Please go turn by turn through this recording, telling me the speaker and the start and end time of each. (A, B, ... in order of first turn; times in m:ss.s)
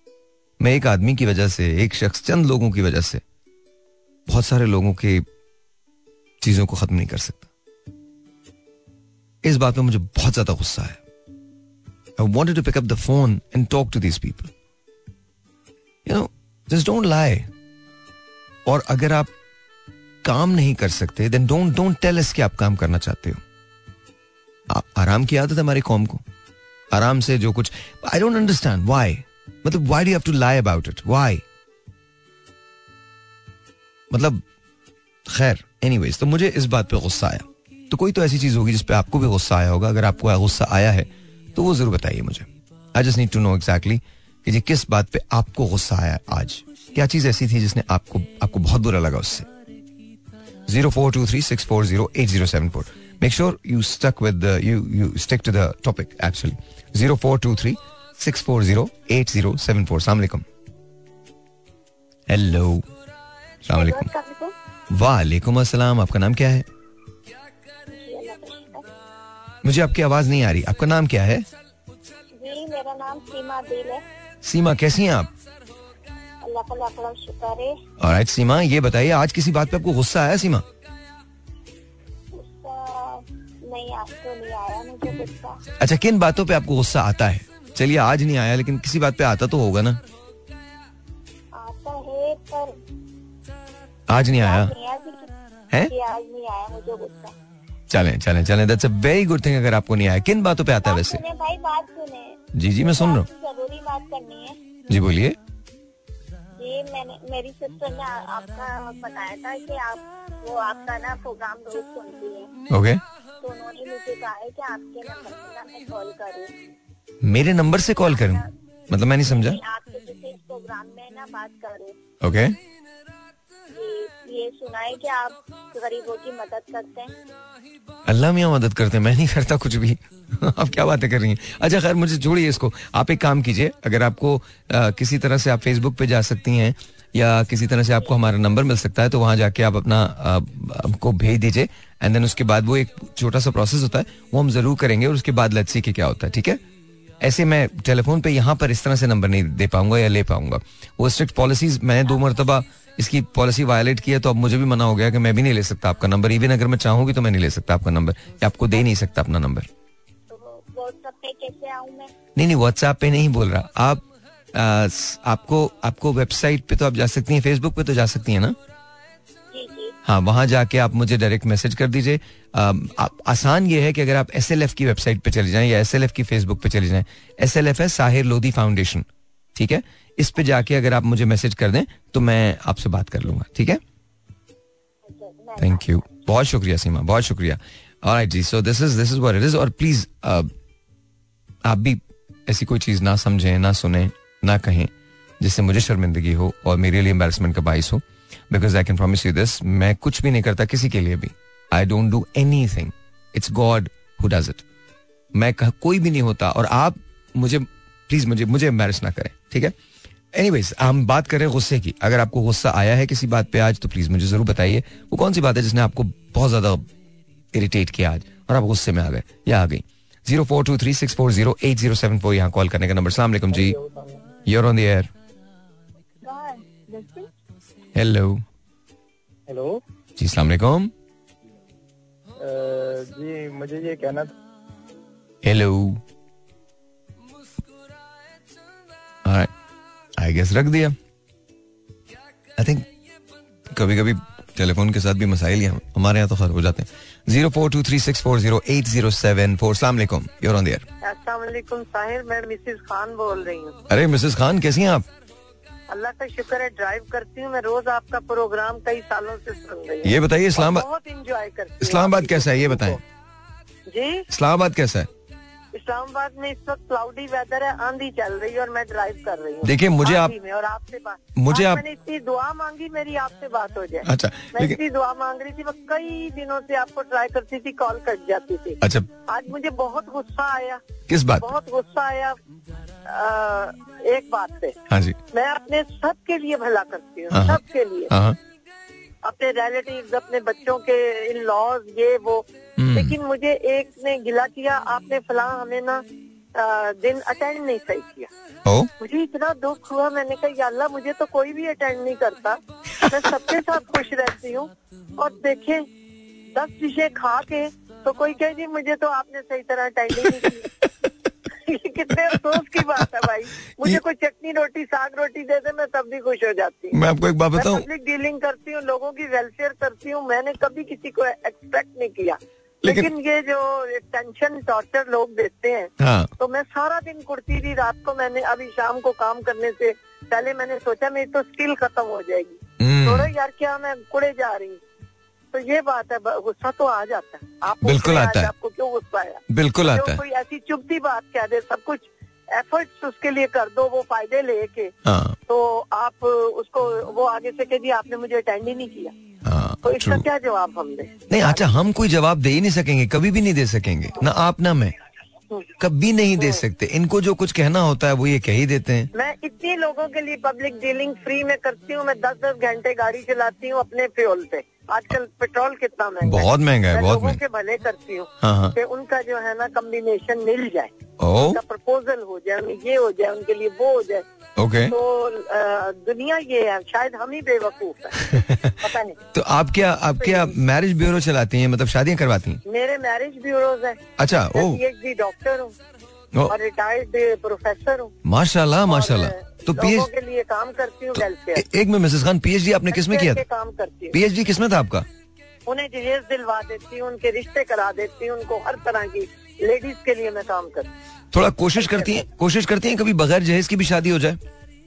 0:00.6-0:03.2 A
0:04.3-0:05.2 A
0:06.4-0:07.5 A
0:09.4-0:11.0 A
0:12.2-0:14.5 A
0:16.0-0:17.5 A
0:18.6-0:19.3 A
0:20.2-0:23.4 A
0:24.7-0:26.2 A
0:26.9-0:31.4 A
0:34.1-0:34.4 A
0:35.3-0:49.5 A
0:50.7-1:00.4 A
1:02.3-1:02.8 A
1:03.7-1:04.5 B
1:03.7-1:04.1 A
1:04.9-1:06.6 A
1:07.9-1:08.9 B
1:09.6-1:11.5 A
1:12.4-1:14.0 B
1:14.4-1:15.3 A
1:16.4-1:17.8 B
1:18.0-1:20.6 A
1:22.3-1:25.6 B
1:25.8-1:30.0 A
1:31.5-1:32.7 B
1:34.1-1:34.7 A
1:34.1-1:37.3 B
1:37.9-1:41.2 A
1:40.8-1:44.6 B
1:42.5-1:43.3 A
1:44.9-1:45.4 A
1:46.6-1:52.5 B
1:52.7-1:53.0 A
1:53.4-1:56.5 B
1:57.2-1:59.6 A
1:58.1-1:58.4 B
1:59.2-2:02.0 B
2:02.2-2:02.6 A
2:03.7-2:07.1 B
2:08.0-2:26.6 A
2:27.2-2:39.7 A
2:40.3-2:42.1 B
2:42.4-2:48.6 A
2:49.5-2:49.9 B
2:50.0-3:03.8 A
3:05.0-3:06.1 B
3:05.6-3:10.5 A
3:11.6-3:24.6 A
3:25.3-3:29.7 A
3:30.3-3:36.9 A
3:37.5-3:43.8 A
3:43.5-3:44.2 C
3:44.4-3:45.1 A
3:46.2-3:47.3 B
3:47.9-3:48.4 A
3:49.5-3:49.8 C
3:50.2-3:50.9 A
3:52.4-3:54.3 C
3:55.4-3:56.0 A
3:59.2-3:59.5 A
4:00.2-4:01.0 A
4:02.6-4:02.9 A
4:03.7-4:10.8 A
4:11.0-4:13.8 D
4:13.9-4:15.1 A
4:15.9-4:23.0 D
4:20.0-4:20.8 A
4:21.8-4:23.0 A
4:23.9-4:24.3 D
4:24.3-4:25.1 A
4:25.7-4:40.8 D
4:29.6-4:30.3 A
4:31.4-4:31.8 A
4:34.0-4:34.8 A
4:38.8-4:39.1 A
4:41.1-4:41.5 A
4:41.4-4:42.4 D
4:43.0-4:44.8 D
4:44.9-4:45.2 A
4:45.3-4:48.1 D
4:47.3-4:48.4 A
4:49.2-4:56.0 D
4:52.8-4:53.1 A
4:56.5-4:58.3 D
4:59.0-5:05.8 D
5:06.5-5:10.7 D
5:10.2-5:11.1 A
5:11.6-5:17.0 D
5:12.1-5:13.0 A
5:16.9-5:17.8 A
5:17.5-5:34.8 D
5:22.8-5:23.1 A
5:26.0-5:26.3 A
5:32.8-5:33.3 A
5:35.5-5:44.9 D
5:37.8-5:38.5 A
5:39.5-5:40.2 A
5:45.0-5:45.4 A
5:45.5-5:49.1 D
5:49.4-5:50.2 A
5:49.8-5:51.7 D
5:51.3-5:54.9 A
5:55.8-5:59.1 A
5:59.1-6:10.9 D
6:06.2-6:07.4 A
6:08.4-6:08.7 A
6:11.2-6:11.6 A
6:11.4-6:14.2 D
6:14.6-6:14.9 A
6:14.9-6:19.2 D
6:18.2-6:18.8 A
6:19.3-6:22.6 A
6:20.2-6:20.5 D
6:22.6-6:24.0 D
6:24.2-6:24.8 A
6:24.5-6:25.7 D
6:26.5-6:28.1 D
6:28.2-6:30.1 A
6:28.9-6:31.6 D
6:31.1-6:33.4 A
6:32.9-6:34.2 D
6:34.1-6:35.0 A
6:35.6-6:40.9 D
6:41.3-6:44.4 A
6:41.8-6:42.1 D